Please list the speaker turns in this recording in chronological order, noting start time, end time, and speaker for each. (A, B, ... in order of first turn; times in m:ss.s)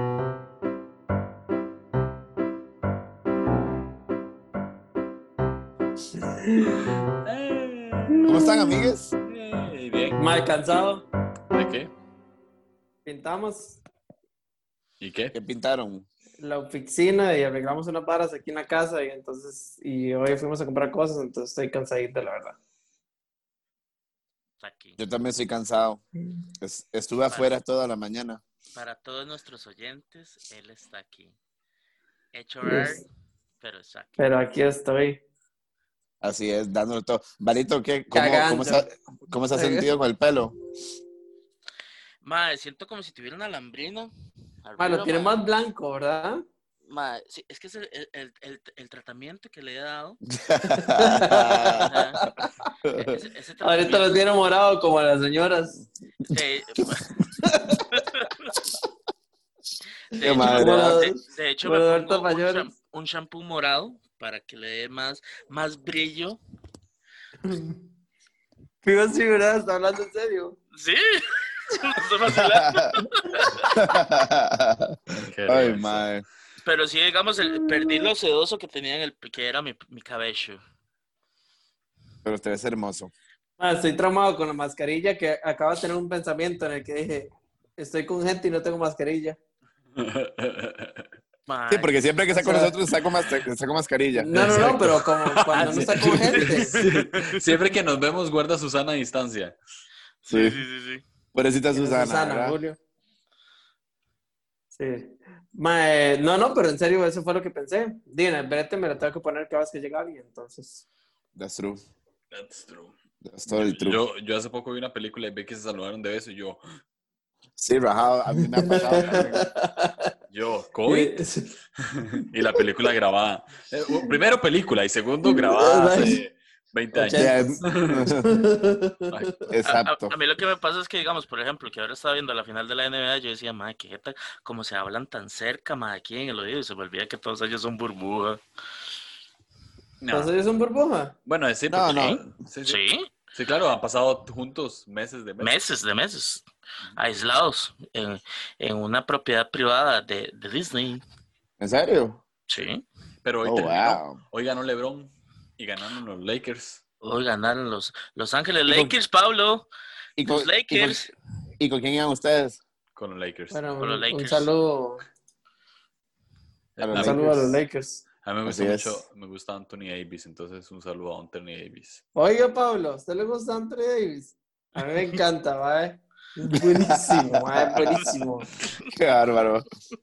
0:06.2-0:06.8 A
0:07.2-0:08.4 B
0:08.2-0:09.1 C
0:09.2-0:10.3 B
0:10.2-0:11.0 A
0:11.5-0:11.9 B
0:13.0-0:13.8 A
0:15.0-0:15.3 B
0:15.3-0:16.1 C
0:16.4-0:22.6 A
0:24.6-0:25.0 D
0:25.0-0:26.0 C
0:26.6-0:28.4 C
0:28.7-0:31.3 D
0:32.3-0:33.0 D
0:32.6-0:33.0 A
0:33.6-0:34.2 D
0:34.2-0:35.2 A
0:36.2-0:40.5 C
0:38.1-0:38.9 A
0:39.5-0:39.9 A
0:42.2-0:44.1 D
0:44.6-0:45.4 D
0:44.8-0:46.4 A
0:46.9-0:50.2 D
0:50.3-0:51.9 C
0:50.7-0:52.5 A
0:51.7-0:52.2 D
0:52.8-0:53.2 C
0:53.1-0:54.1 D
0:53.6-0:55.8 A
0:56.3-0:57.1 D
0:57.4-0:57.9 A
0:57.9-0:58.3 D
1:00.2-1:06.4 D
1:00.2-1:01.0 C
1:00.4-1:02.7 A
1:07.4-1:07.8 A
1:08.8-1:10.6 A
1:10.8-1:13.7 D
1:12.3-1:13.0 C
1:13.7-1:16.2 C
1:15.1-1:16.1 B
1:16.6-1:20.6 D
1:17.4-1:18.1 A
1:22.2-1:23.1 C
1:23.6-1:29.4 A
1:30.0-1:31.1 B
1:31.5-1:31.9 D
1:31.7-1:34.7 C
1:32.3-1:32.7 A
1:34.1-1:36.7 A
1:34.3-1:39.6 B
1:36.3-1:37.4 D
1:40.2-1:41.0 D
1:40.3-1:40.6 C
1:41.3-1:42.6 C
1:41.7-1:42.8 A
1:44.7-1:50.8 A
1:51.4-1:51.8 C
1:52.3-1:52.9 B
1:53.2-1:54.0 C
1:53.5-1:56.6 B
1:57.6-1:59.4 C
1:58.4-2:00.1 A
1:58.7-1:59.4 B
2:00.3-2:01.2 B
2:00.8-2:01.5 A
2:01.9-2:08.1 B
2:02.2-2:02.6 A
2:05.2-2:06.2 A
2:06.9-2:07.6 A
2:07.1-2:08.3 C
2:08.1-2:09.5 A
2:09.1-2:09.4 B
2:09.5-2:10.1 C
2:09.7-2:18.4 D
2:20.0-2:20.4 B
2:20.1-2:21.1 A
2:21.2-2:25.6 B
2:21.7-2:22.2 C
2:22.0-2:23.1 D
2:25.4-2:26.4 D
2:27.0-2:31.0 D
2:31.6-2:32.2 C
2:32.5-2:32.8 D
2:33.2-2:36.8 B
2:33.4-2:34.2 C
2:37.0-2:39.7 D
2:38.6-2:38.9 C
2:40.2-2:42.6 C
2:40.3-2:41.1 D
2:43.0-2:43.6 B
2:43.5-2:45.0 A
2:43.8-2:44.5 D
2:46.8-2:47.6 B
2:46.8-2:47.2 C
2:46.9-2:48.0 A
2:48.2-2:52.0 B
2:48.4-2:49.0 C
2:52.1-2:58.5 A
2:56.5-2:58.2 C
2:58.8-2:59.6 C